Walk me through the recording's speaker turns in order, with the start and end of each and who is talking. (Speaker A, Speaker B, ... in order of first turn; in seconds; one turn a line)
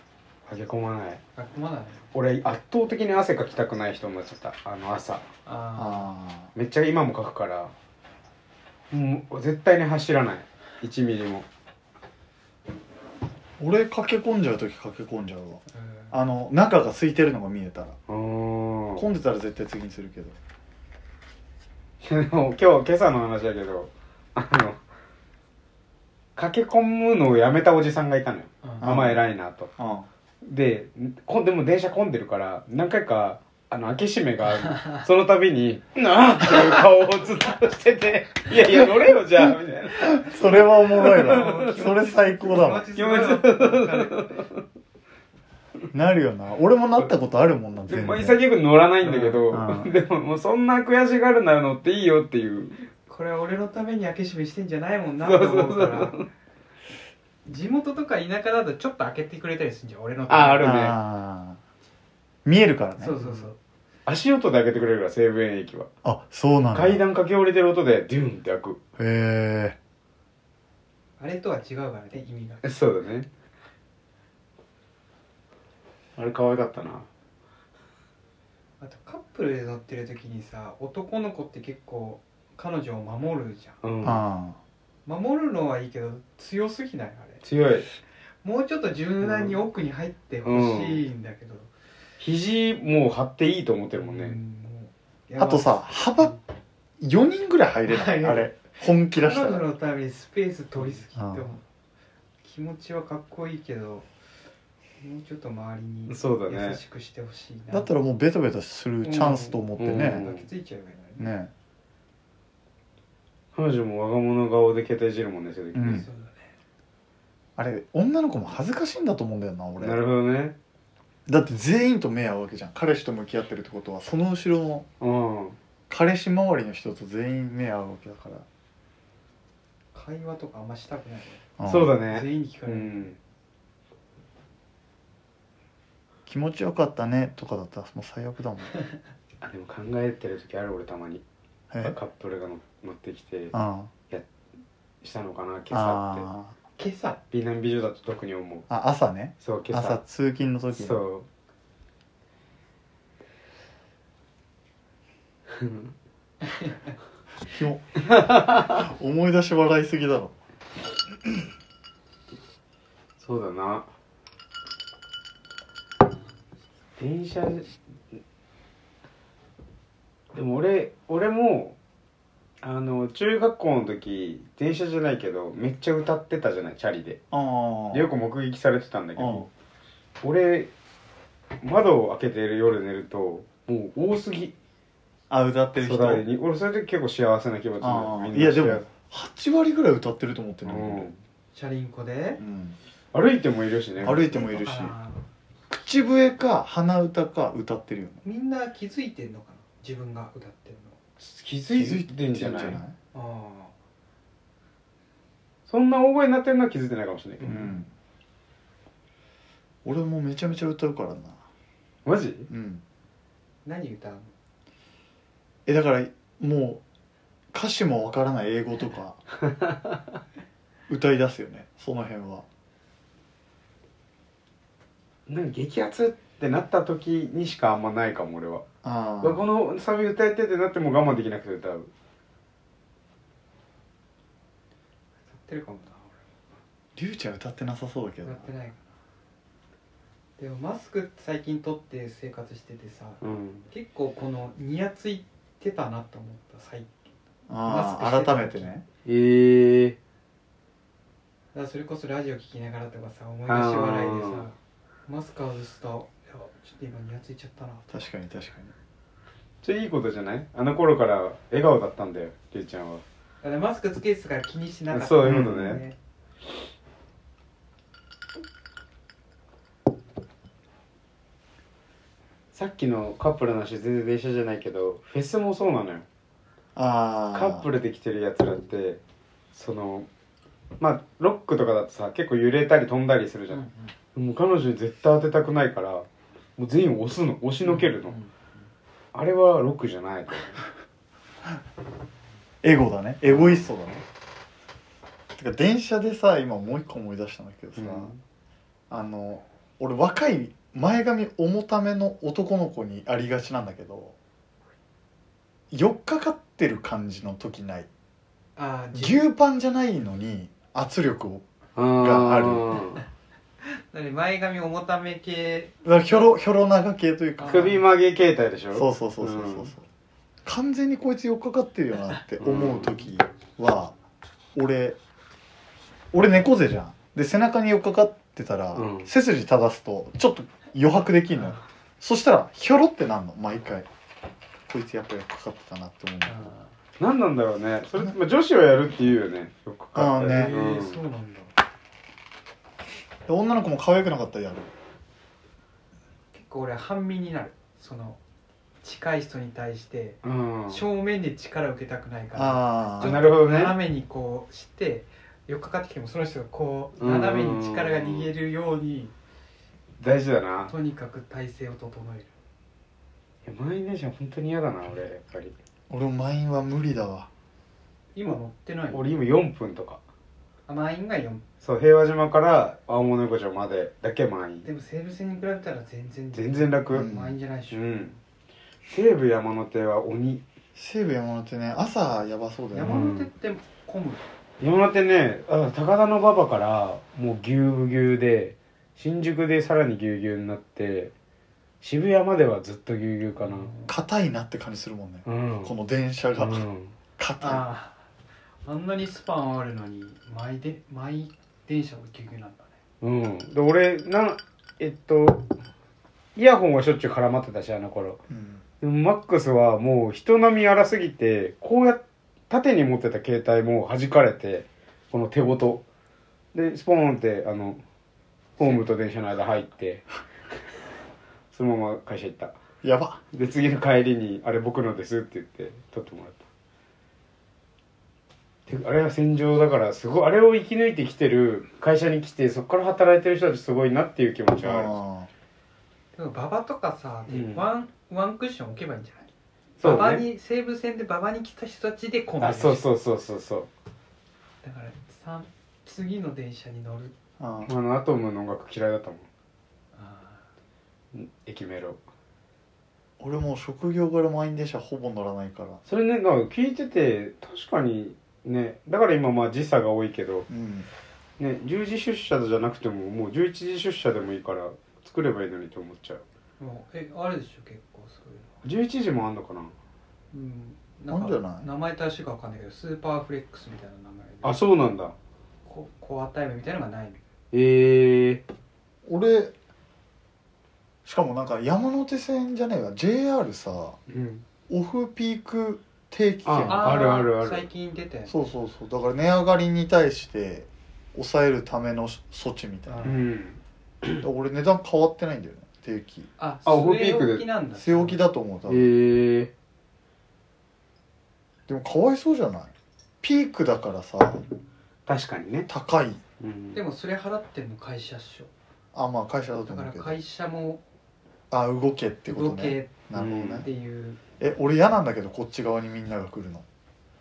Speaker A: 0.5-1.2
Speaker B: 1.4-2.1
Speaker A: 2.1-5.2
Speaker B: 5.4-6.1
Speaker C: 5.8-6.5
Speaker A: 6.5-7.7
Speaker A: 8.9-11.5
Speaker C: 13.6-18.0
Speaker B: 15.7-16.1
Speaker A: 18.1-19.1
Speaker C: 18.9-20.4
Speaker A: 22.0-24.8
Speaker A: 26.4-29.7
Speaker C: 28.8-29.2
Speaker C: 29.8-30.1
Speaker A: 30.4-41.5
Speaker C: 39.4-42.9
Speaker B: 41.0-44.3
Speaker A: 42.9-44.6
Speaker C: 45.9-48.4
Speaker A: 47.9-52.8
Speaker B: 49.0-49.4
Speaker C: 49.5-49.9
Speaker B: 53.1-56.1
Speaker A: 55.2-56.2
Speaker B: 57.5-60.8
Speaker A: 60.3-61.0
Speaker C: 60.6-61.6
Speaker C: 62.4-63.1
Speaker B: 63.0-63.6
Speaker A: 63.2-63.5
Speaker A: 64.0-65.9
Speaker C: 66.0-67.0
Speaker A: 66.7-68.8
Speaker C: 69.0-69.8
Speaker B: 71.2-72.7
Speaker A: 72.6-73.3
Speaker A: 76.2-77.1
Speaker B: 78.8-83.8
Speaker A: 83.8-84.2
Speaker C: 84.0-84.6
Speaker B: 85.0-87.4
Speaker A: 87.4-87.9
Speaker B: 88.4-91.7
Speaker A: 89.2-89.6
Speaker A: 90.4-91.0
Speaker A: 92.2-94.4
Speaker B: 94.0-96.0
Speaker C: 95.4-96.3
Speaker C: 97.0-99.6
Speaker B: 97.8-101.6
Speaker C: 101.2-101.5
Speaker B: 102.4-104.0
Speaker B: 105.0-107.9
Speaker A: 106.1-106.8
Speaker C: 107.7-110.2
Speaker B: 109.0-111.3
Speaker A: 109.8-110.5
Speaker C: 111.2-111.5
Speaker A: 113.5-116.0
Speaker C: 115.7-116.0
Speaker B: 115.8-116.5
Speaker C: 117.6-120.0
Speaker A: 119.8-120.5
Speaker C: 121.3-124.9
Speaker A: 125.0-125.6
Speaker C: 125.9-128.4
Speaker B: 129.9-131.4
Speaker C: 131.6-131.9
Speaker A: 131.6-133.1
Speaker B: 132.1-133.2
Speaker C: 136.3-138.7
Speaker A: 139.4-141.2
Speaker C: 141.7-141.9
Speaker A: 141.8-143.5
Speaker C: 143.5-143.9
Speaker A: 145.0-146.2
Speaker C: 145.7-146.5
Speaker B: 146.8-147.2
Speaker A: 147.3-148.7
Speaker C: 148.7-151.0
Speaker A: 149.4-150.0
Speaker A: 150.7-151.2
Speaker A: 155.5-155.9
Speaker C: 157.5-160.3
Speaker A: 158.1-158.7
Speaker A: 163.2-163.9
Speaker A: 167.0-167.7
Speaker A: 170.3-171.8
Speaker A: 172.6-177.2
Speaker C: 177.3-178.1
Speaker A: 177.9-179.5
Speaker C: 179.2-179.5
Speaker A: 180.2-180.7
Speaker A: 181.6-184.5
Speaker C: 185.3-186.2
Speaker A: 185.8-188.8
Speaker C: 187.8-191.1
Speaker A: 190.6-191.2
Speaker B: 191.5-192.4
Speaker C: 192.4-192.8
Speaker A: 193.1-194.5
Speaker C: 194.0-194.9
Speaker B: 194.5-195.2
Speaker C: 195.7-198.2
Speaker B: 198.2-201.0
Speaker A: 201.2-202.8
Speaker C: 201.7-202.9
Speaker B: 203.1-203.7
Speaker A: 205.7-207.7
Speaker B: 207.4-207.7
Speaker C: 207.4-207.9
Speaker C: 209.8-211.4
Speaker A: 212.0-212.5
Speaker C: 212.5-212.8
Speaker B: 213.6-214.3
Speaker C: 215.7-216.8
Speaker C: 217.5-219.2
Speaker A: 219.5-220.0
Speaker C: 220.9-222.4
Speaker A: 225.3-228.6
Speaker C: 228.8-229.4
Speaker A: 229.2-231.9
Speaker B: 235.3-236.1
Speaker C: 236.9-238.5
Speaker B: 238.2-238.8
Speaker B: 240.4-247.1
Speaker A: 243.2-243.7
Speaker C: 247.5-248.8
Speaker B: 247.6-248.7
Speaker A: 249.0-250.0
Speaker B: 251.5-257.9
Speaker A: 253.5-254.4
Speaker C: 257.9-258.7
Speaker A: 259.6-263.0
Speaker B: 263.4-265.9
Speaker A: 264.9-265.8
Speaker C: 265.2-265.8
Speaker A: 272.5-276.1
Speaker C: 276.8-277.6
Speaker A: 277.3-279.0
Speaker A: 279.5-280.1
Speaker A: 280.8-283.6
Speaker B: 283.5-283.9
Speaker A: 284.1-288.1
Speaker B: 287.6-288.3
Speaker A: 289.1-290.7
Speaker C: 292.6-294.0
Speaker C: 295.4-298.1
Speaker A: 297.8-298.2
Speaker C: 298.9-304.1
Speaker C: 305.7-307.9
Speaker B: 308.6-309.2
Speaker C: 308.9-311.4
Speaker A: 311.8-313.0
Speaker C: 311.9-312.8
Speaker B: 313.9-315.8
Speaker C: 315.8-317.8
Speaker B: 317.4-317.8
Speaker A: 317.4-319.7
Speaker C: 318.7-319.8
Speaker C: 320.4-323.9
Speaker A: 322.4-323.0
Speaker C: 324.5-325.0
Speaker C: 326.1-333.9
Speaker A: 328.7-329.1
Speaker C: 334.7-336.5
Speaker B: 336.2-336.7
Speaker A: 337.0-341.0
Speaker C: 339.9-340.5
Speaker B: 340.2-341.5
Speaker C: 343.3-344.7
Speaker B: 346.3-348.2
Speaker B: 348.8-359.1
Speaker A: 350.2-350.8
Speaker C: 352.4-353.2
Speaker A: 353.0-353.8
Speaker A: 357.0-358.3
Speaker A: 360.0-360.7
Speaker B: 360.7-362.3
Speaker A: 363.4-365.5
Speaker C: 365.9-367.3
Speaker B: 368.1-369.1
Speaker A: 368.9-370.0
Speaker B: 370.7-371.4
Speaker A: 371.6-374.7
Speaker B: 374.6-378.1
Speaker A: 376.3-377.1
Speaker C: 376.9-377.3
Speaker A: 377.7-378.1
Speaker A: 378.9-380.4
Speaker C: 380.7-383.0
Speaker B: 382.7-384.2
Speaker A: 382.8-383.3
Speaker A: 384.6-391.1
Speaker A: 391.8-393.7
Speaker B: 393.4-393.9
Speaker C: 393.9-396.6
Speaker A: 395.2-395.7
Speaker A: 396.3-396.9
Speaker C: 397.2-397.6
Speaker B: 397.4-398.0
Speaker B: 398.6-402.7
Speaker A: 403.0-405.5
Speaker A: 406.4-408.2
Speaker C: 408.3-408.6
Speaker A: 408.8-415.8
Speaker A: 416.5-417.8
Speaker A: 418.6-420.1
Speaker A: 421.5-422.5
Speaker C: 422.8-423.2
Speaker A: 423.3-426.4
Speaker A: 428.7-434.9
Speaker C: 434.6-435.3
Speaker B: 436.1-439.3
Speaker A: 437.3-437.6
Speaker A: 439.8-440.2
Speaker B: 439.8-442.9
Speaker A: 442.4-443.7
Speaker B: 444.6-447.1
Speaker C: 447.4-447.7
Speaker A: 447.7-449.3
Speaker B: 449.9-450.4
Speaker A: 451.1-452.0
Speaker C: 453.2-455.8
Speaker A: 455.9-460.5
Speaker C: 460.5-460.9
Speaker A: 461.4-466.2
Speaker B: 466.6-468.5
Speaker A: 468.6-469.7
Speaker B: 470.3-474.6
Speaker C: 471.1-471.6
Speaker A: 474.4-475.1
Speaker B: 475.6-477.2
Speaker A: 477.5-478.4
Speaker C: 479.1-479.5
Speaker C: 481.0-484.0
Speaker A: 484.1-484.4
Speaker C: 484.7-487.2
Speaker A: 486.4-487.7
Speaker B: 486.7-488.3
Speaker C: 488.3-493.1
Speaker B: 492.9-493.3
Speaker A: 493.0-494.2
Speaker C: 494.2-496.3
Speaker B: 496.4-498.2
Speaker A: 496.6-497.4
Speaker C: 497.8-498.9
Speaker A: 498.7-499.5
Speaker C: 501.7-504.5
Speaker A: 505.1-505.7
Speaker C: 505.7-506.2
Speaker A: 506.4-506.8
Speaker B: 506.7-508.5
Speaker C: 508.9-510.2
Speaker B: 509.6-510.8
Speaker C: 511.5-513.7
Speaker B: 512.3-513.0
Speaker A: 513.1-513.6
Speaker B: 513.6-514.2
Speaker C: 514.4-516.6